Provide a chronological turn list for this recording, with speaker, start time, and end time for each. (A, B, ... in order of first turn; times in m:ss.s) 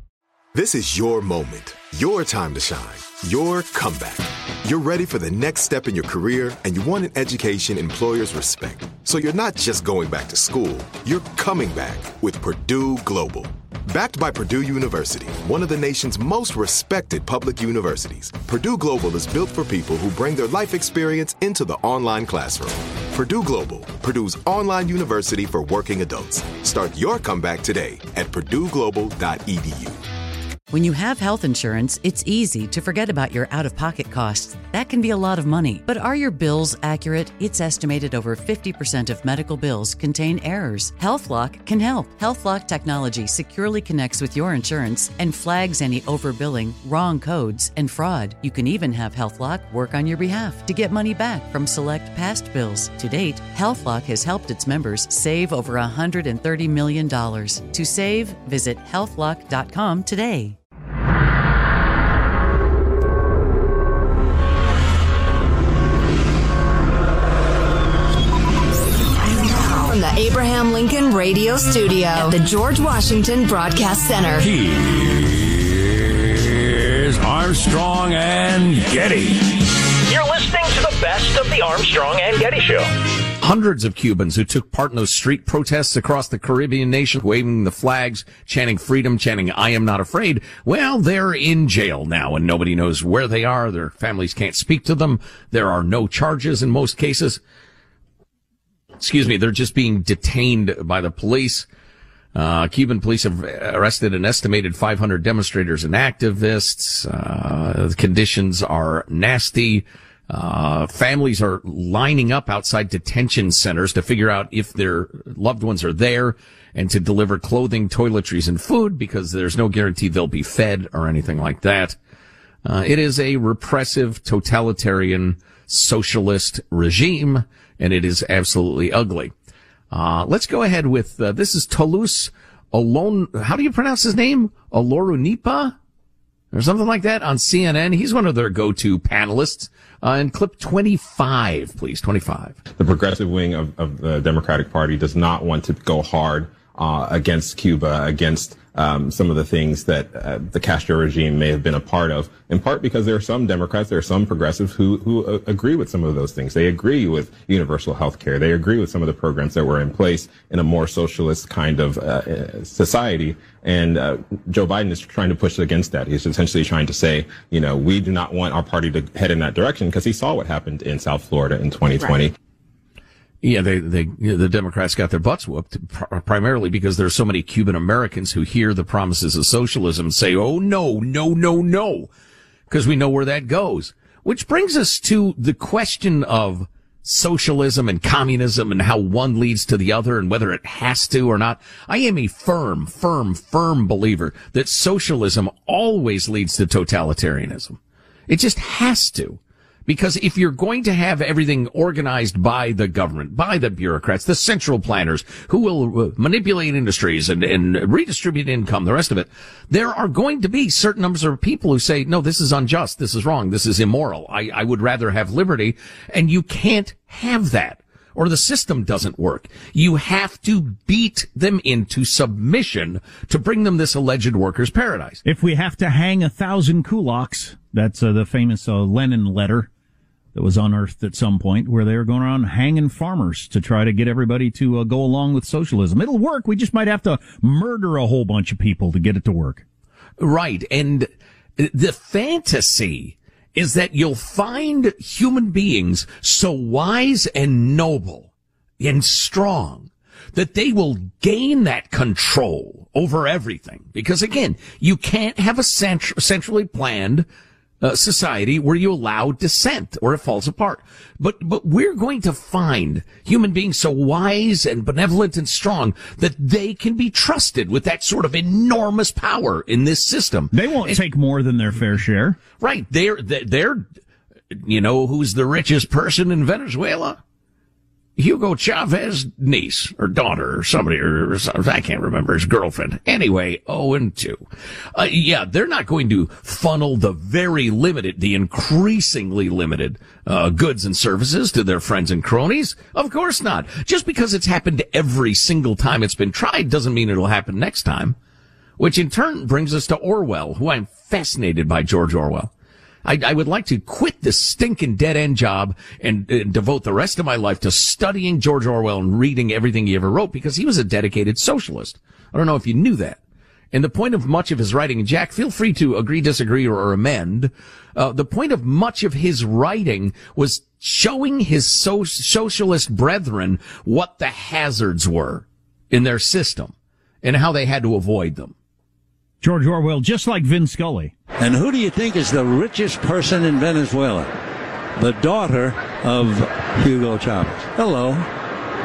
0:00.5-0:30.0 A
0:30.7-1:00.6 B
1:09.3-1:14.5 C
1:14.4-1:19.6 D
1:20.0-1:22.9 E
1:23.4-1:37.4 F
1:39.0-1:41.7 F
1:42.3-2:02.0 F
2:02.6-2:09.3 F
2:09.9-2:15.7 F
2:16.5-2:22.6 F
2:22.7-2:52.3 G
2:53.4-3:02.1 F
3:02.7-3:45.2 F
3:45.2-3:49.7 H
3:50.3-3:59.6 H
4:00.2-4:08.3 F
4:08.8-4:17.2 F
4:17.8-4:31.0 F
4:30.5-4:32.4 H
4:32.6-4:33.8 F
4:34.5-4:37.2 F
4:38.2-4:58.2 F
4:58.8-5:02.5 F
5:03.0-5:13.2 F
5:13.7-5:28.5 F
5:29.4-5:31.1 H
5:31.4-5:34.3 I
5:35.0-5:38.3 I